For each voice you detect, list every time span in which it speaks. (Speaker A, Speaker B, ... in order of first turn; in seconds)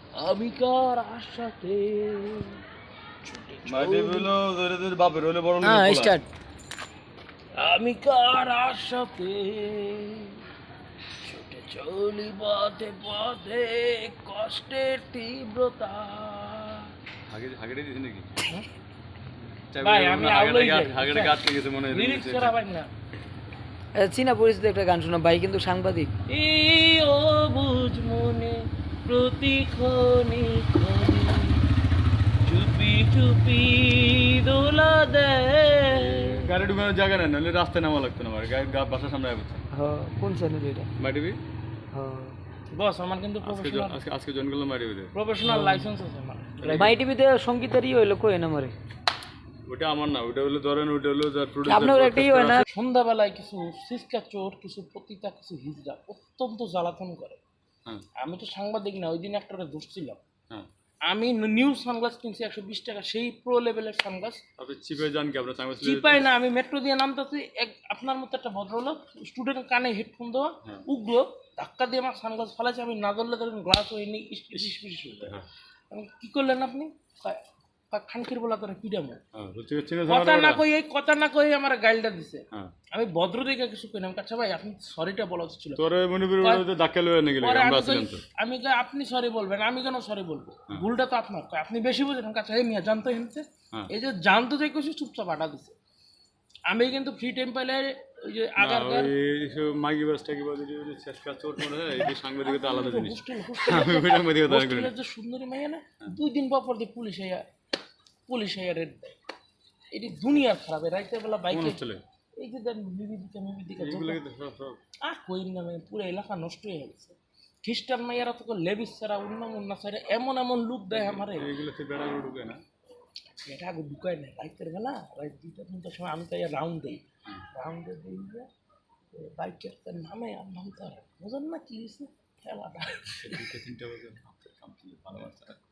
Speaker A: 0.1-2.6, 3.2-4.3, 7.6-10.4, 11.2-16.9, 19.8-22.9, 26.3-31.6, 32.4-36.5, 42.7-44.0, 45.1-46.9, 52.7-57.4, 58.2-60.2, 61.1-64.4, 65.8-79.2, 80.1-85.8, 86.4-86.6, 87.4-95.8, 96.7-99.1, 102.0-107.5, 108.3-109.2, 109.9-111.8, 112.4-114.2, 115.0-121.5, 123.4-127.0, 127.5-128.5, 129.1-133.5
Speaker B: 3.6-6.1, 17.3-18.3, 19.7-22.5, 35.9-39.6, 41.0-41.4, 43.4-45.1, 46.6-46.9, 49.6-52.6, 64.6-66.2, 79.3-80.6, 85.8-88.2, 98.6-104.9, 111.5-112.0, 113.8-114.8, 121.2-122.6, 133.2-135.6
Speaker C: 5.6-6.3, 24.0-26.1, 39.7-40.9, 41.9-42.4, 45.4-45.9, 46.7-48.7, 51.6-52.6